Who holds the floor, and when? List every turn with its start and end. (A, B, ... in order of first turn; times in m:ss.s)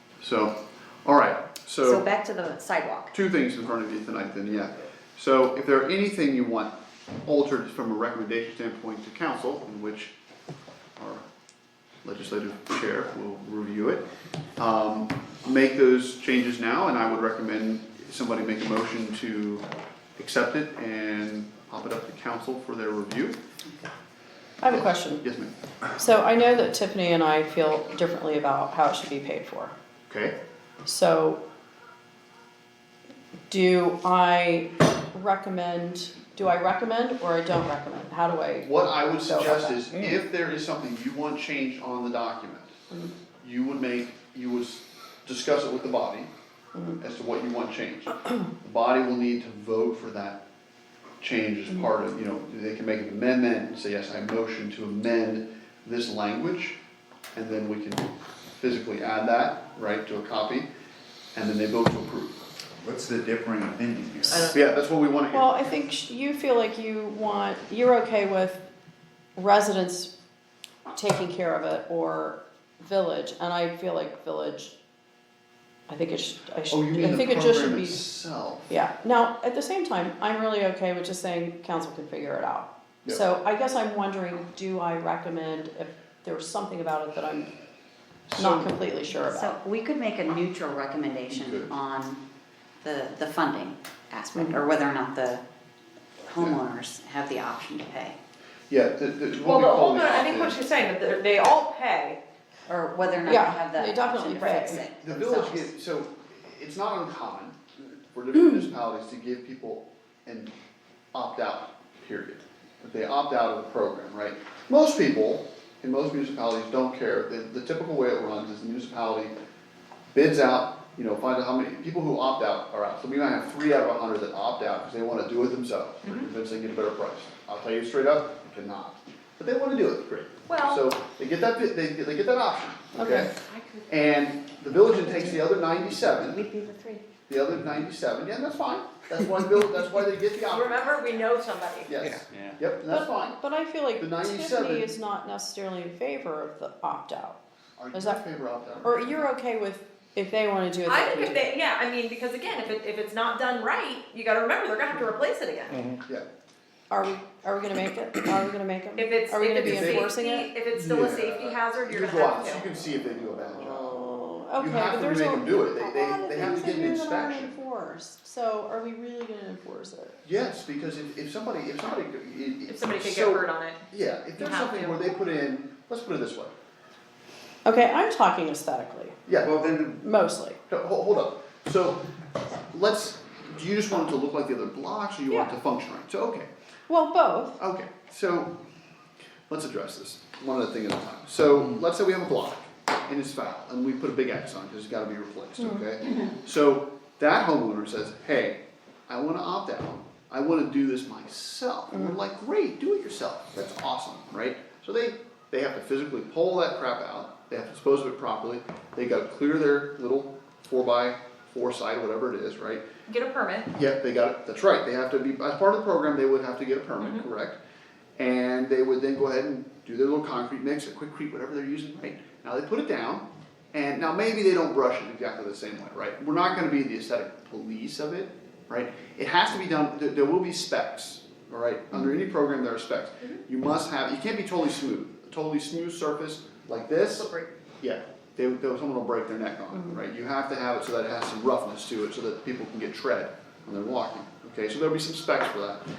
0:00.2-0:02.0 A
0:01.8-0:03.1 B
0:03.1-0:06.7 A
0:07.2-0:10.1 A
0:11.0-0:11.2 A
0:12.0-0:14.0 A
0:14.6-0:19.6 A
0:20.2-0:23.4 A
0:24.6-0:25.3 C
0:24.6-0:25.5 A
0:25.9-0:29.7 C
0:30.1-0:30.3 A
0:30.8-0:31.4 C
0:33.5-0:39.8 C
0:38.6-0:42.8 A
0:42.9-0:43.1 C
0:43.4-0:46.3 A
0:46.7-0:47.0 C
0:47.0-0:50.4 A
0:51.2-0:56.8 A
0:57.3-1:00.7 A
1:01.3-1:02.4 A
1:02.8-1:04.6 D
1:04.3-1:04.6 E
1:04.5-1:05.5 A
1:05.3-1:08.6 C
1:09.4-1:10.1 C
1:10.9-1:14.7 C
1:15.9-1:18.0 C
1:16.7-1:18.7 A
1:18.7-1:27.5 C
1:28.3-1:28.7 A
1:28.3-1:29.6 C
1:29.1-1:32.2 B
1:31.3-1:31.7 A
1:32.8-1:35.4 B
1:34.3-1:34.6 C
1:36.2-1:38.2 B
1:38.7-1:40.7 A
1:39.4-1:42.2 E
1:42.7-1:45.7 B
1:43.2-1:44.8 C
1:44.4-1:44.8 E
1:44.7-1:50.5 A
1:51.1-1:59.3 A
2:00.1-2:13.3 A
2:10.5-2:10.8 E
2:12.9-2:13.3 C
2:13.4-2:13.9 E
2:13.9-2:16.4 A
2:16.2-2:17.0 B
2:17.3-2:21.0 A
2:20.5-2:21.9 E
2:21.8-2:23.4 A
2:22.3-2:22.6 D
2:22.9-2:27.4 C
2:24.0-2:24.9 A
2:27.8-2:29.3 A
2:27.9-2:28.2 C
2:28.8-2:31.5 C
2:30.9-2:35.9 E
2:36.9-2:40.5 C
2:39.0-2:42.6 E
2:39.6-2:40.1 A
2:40.7-2:44.0 A
2:43.6-2:50.2 C
2:44.6-2:47.6 A
2:50.2-2:56.5 A
2:52.7-2:53.8 E
2:54.4-2:55.2 E
2:57.6-2:59.2 C
2:59.3-2:59.5 A
2:59.4-3:00.0 D
3:00.0-3:00.6 C
3:00.7-3:02.0 A
3:02.7-3:06.5 A
3:06.9-3:07.6 C
3:07.6-3:08.5 A
3:09.5-3:32.8 A
3:15.6-3:15.8 C
3:21.9-3:22.2 C
3:33.1-3:33.7 E
3:33.7-3:37.6 A
3:37.0-3:37.2 E
3:38.2-3:57.3 A
3:57.0-3:57.5 E
3:57.8-4:05.8 A